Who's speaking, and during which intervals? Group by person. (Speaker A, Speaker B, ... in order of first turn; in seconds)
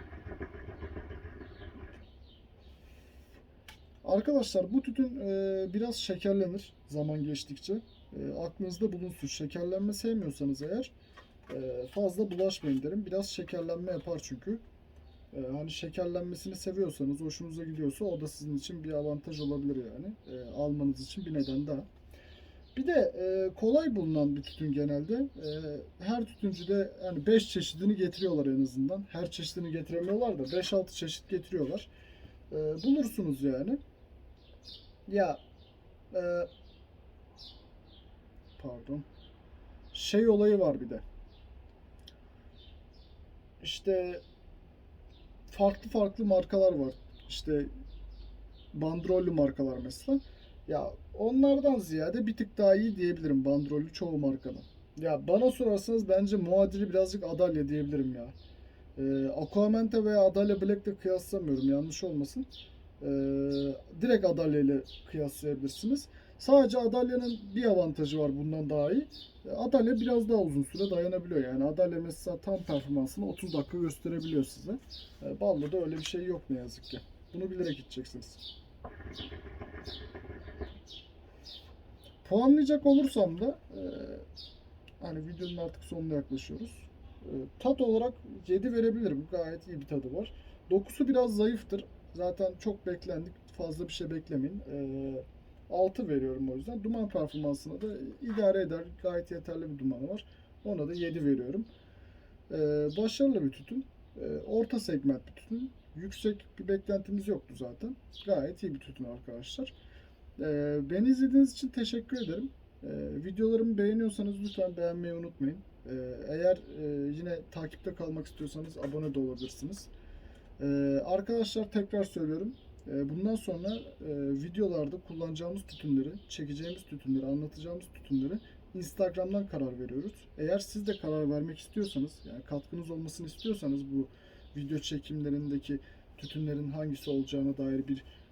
Speaker A: 4.0-10.9, 11.5-14.6, 15.3-21.9, 22.8-31.9, 32.5-33.8, 35.1-35.4, 36.1-36.5, 38.6-39.1, 39.9-41.0, 43.6-44.2, 45.5-47.7, 48.7-58.4, 59.0-62.5, 63.0-78.4, 82.2-84.3, 85.0-101.7, 102.5-109.7, 110.4-119.9, 120.6-138.1